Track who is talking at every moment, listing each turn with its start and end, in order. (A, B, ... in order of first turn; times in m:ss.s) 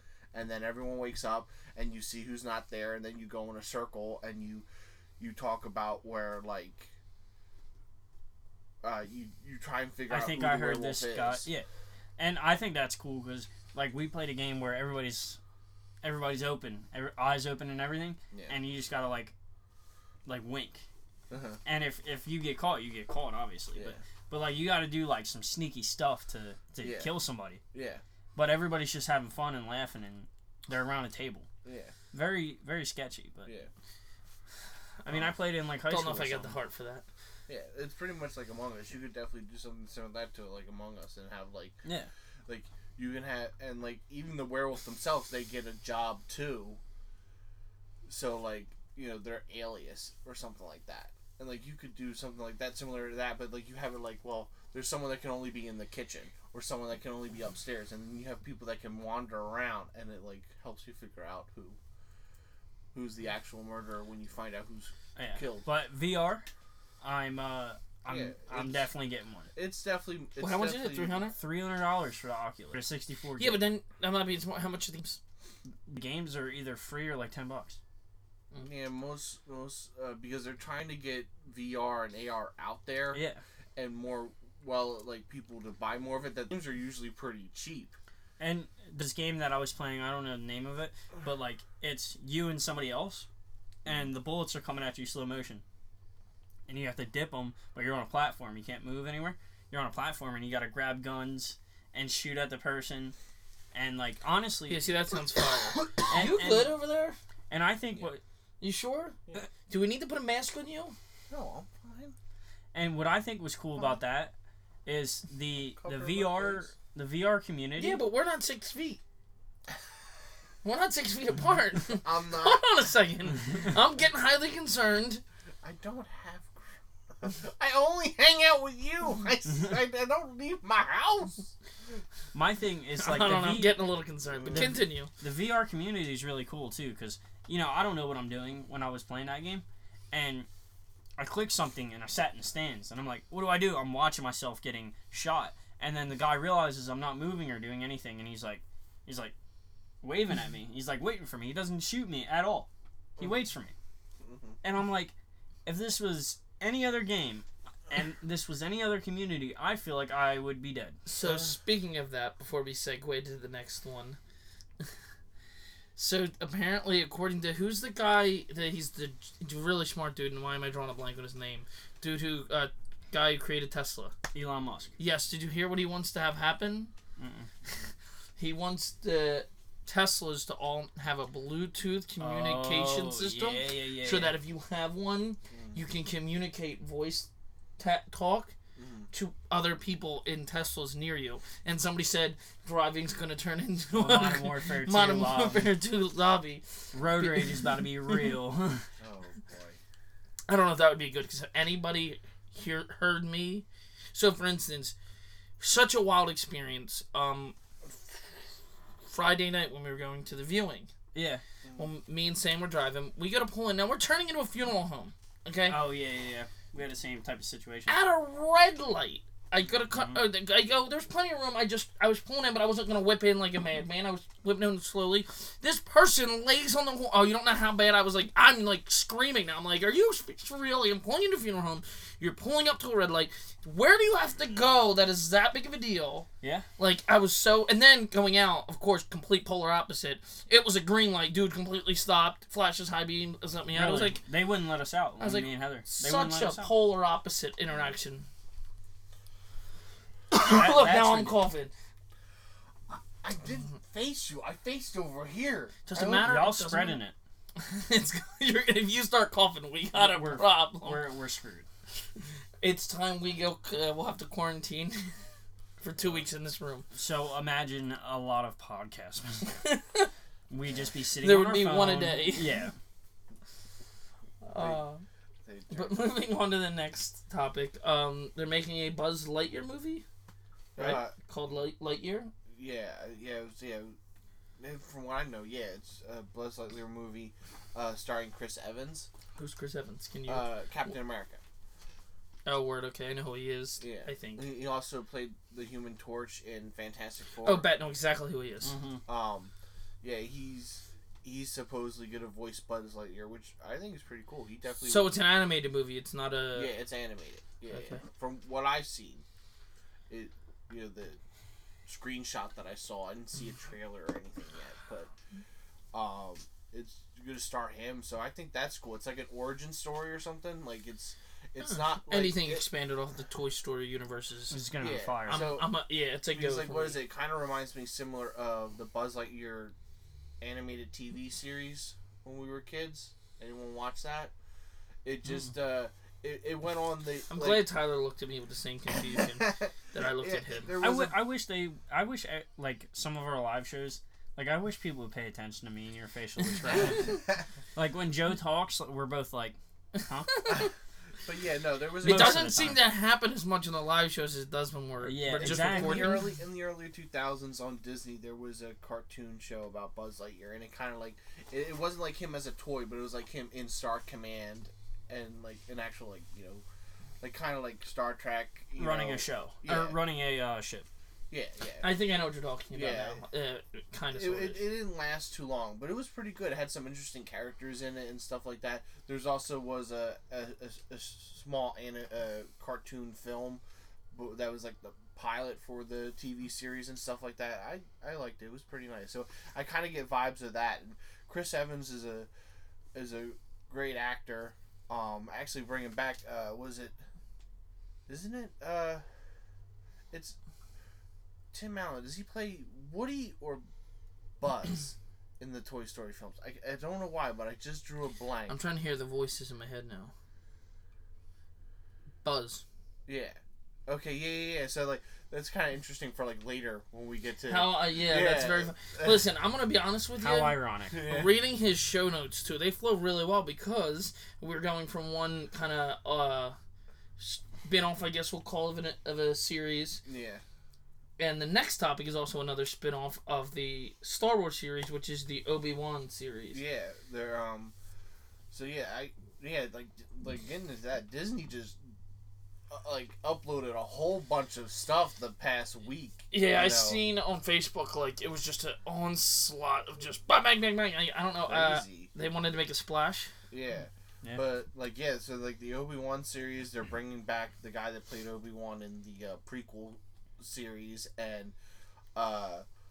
0:00.3-0:04.7 A
0:05.2-0:06.9 A
0:08.8-0:11.5 A
0:10.1-0:15.4 B
0:16.0-0:19.3 B
0:18.3-0:18.6 A
0:20.3-0:20.8 B
0:21.3-0:21.6 A
0:21.6-0:27.6 B
0:26.8-0:27.1 A
0:27.7-0:28.0 A
0:28.4-0:31.5 B
0:31.6-0:31.9 A
0:32.1-0:33.5 B
0:35.1-0:36.6 B
0:35.9-0:37.0 C
0:37.5-0:41.8 A
0:41.8-0:42.1 B
0:42.5-0:46.8 A
0:48.1-1:01.8 A
1:02.9-1:05.7 A
1:05.2-1:06.5 B
1:07.0-1:09.5 B
1:08.1-1:08.9 A
1:09.6-1:11.2 A
1:10.4-1:11.4 C
1:11.3-1:13.6 B
1:13.4-1:15.2 C
1:15.9-1:17.8 B
1:18.6-1:23.2 A
1:23.1-1:23.4 B
1:23.8-1:28.0 A
1:28.4-1:33.3 B
1:33.8-1:35.6 B
1:36.7-1:43.2 B
1:43.7-1:44.8 B
1:44.7-1:47.2 C
1:46.0-1:46.7 B
1:47.5-1:48.2 B
1:48.6-1:49.2 C
1:49.7-1:51.0 C
1:51.3-1:52.2 A
1:52.7-1:54.3 B
1:54.9-1:58.0 B
1:55.8-1:56.7 A
1:57.8-1:59.0 C
2:00.6-2:05.2 C
2:01.9-2:02.6 A
2:05.6-2:11.5 A
2:12.3-2:13.8 B
2:13.0-2:15.1 C
2:14.4-2:14.7 A
2:14.5-2:20.5 B
2:21.2-2:29.4 B
2:30.0-2:33.8 B
2:34.2-2:34.6 A
2:34.6-2:41.5 B
2:41.1-2:44.2 C
2:46.0-2:54.1 C
2:54.3-2:54.9 B
2:55.0-2:56.9 C
2:57.2-2:57.5 B
2:57.7-3:07.3 C
3:02.2-3:04.4 B
3:05.5-3:05.8 A
3:07.8-3:08.5 C
3:08.8-3:09.1 A
3:09.1-3:18.3 C
3:13.9-3:15.7 B
3:16.9-3:18.9 B
3:19.0-3:19.8 A
3:20.5-3:25.0 C
3:25.6-3:28.3 C
3:29.1-3:30.9 C
3:31.1-3:31.4 B
3:31.6-3:31.9 A
3:31.8-3:35.8 C
3:35.7-3:38.0 B
3:37.9-3:56.3 C
3:39.9-3:40.2 B
3:56.4-3:56.7 B
3:56.8-4:04.2 C
4:03.7-4:06.7 B
4:05.2-4:08.3 C
4:10.3-4:11.7 C
4:10.4-4:11.4 B
4:13.2-4:16.2 A
4:15.9-4:17.0 C
4:16.0-4:17.2 B
4:17.6-4:21.0 C
4:19.9-4:21.7 B
4:22.6-4:25.1 C
4:25.8-4:26.9 C
4:26.0-4:26.2 A
4:26.9-4:29.5 B
4:29.6-4:30.1 C
4:30.5-4:32.8 B
4:31.2-4:32.6 C
4:34.4-4:35.0 C
4:34.6-4:34.8 A
4:35.4-4:36.0 A
4:35.7-4:40.0 C
4:40.8-4:41.1 A
4:40.8-4:42.3 C
4:42.5-4:44.0 A
4:44.6-4:49.1 A
4:49.4-4:50.5 C
4:50.3-4:51.4 A
4:52.5-4:54.5 C
4:53.8-4:57.7 A
4:57.4-4:58.7 C
4:58.6-4:59.0 B
4:59.1-5:05.1 A
5:04.8-5:06.7 C
5:06.5-5:09.2 A
5:07.7-5:08.0 C
5:10.1-5:11.2 A
5:11.9-5:15.1 A
5:15.9-5:22.6 A
5:21.6-5:24.6 C
5:24.5-5:25.6 B
5:24.8-5:25.7 A
5:25.2-5:27.0 C
5:26.3-5:29.7 A
5:30.4-5:34.3 A
5:35.0-5:37.6 A
5:37.3-5:40.8 C
5:39.1-5:41.2 A
5:40.8-5:47.2 B
5:46.7-5:47.1 C
5:46.8-5:47.1 A
5:47.8-5:50.6 B
5:50.3-5:50.7 C
5:51.2-5:52.7 A
5:52.0-5:52.8 B
5:52.0-5:56.2 C
5:55.0-5:56.2 B
5:55.4-6:06.6 A
6:07.2-6:10.0 A
6:08.8-6:10.9 B
6:11.3-6:12.0 A
6:11.8-6:14.6 C
6:12.7-6:13.2 A
6:14.2-6:32.3 A
6:32.9-6:37.0 A
6:38.1-6:39.0 A
6:41.5-6:43.6 A
6:44.4-6:48.6 A
6:48.5-6:50.1 C
6:52.2-6:52.6 C
6:53.1-6:59.2 A
6:57.5-7:06.6 C
7:00.2-7:01.0 B
7:00.9-7:01.3 A
7:07.2-7:10.0 C
7:10.0-7:10.4 A
7:11.2-7:16.6 C
7:16.5-7:17.8 A
7:18.5-7:21.8 A
7:22.7-7:27.0 A
7:26.3-7:33.3 C
7:31.5-7:32.2 A
7:33.5-7:41.6 A
7:42.2-7:42.6 A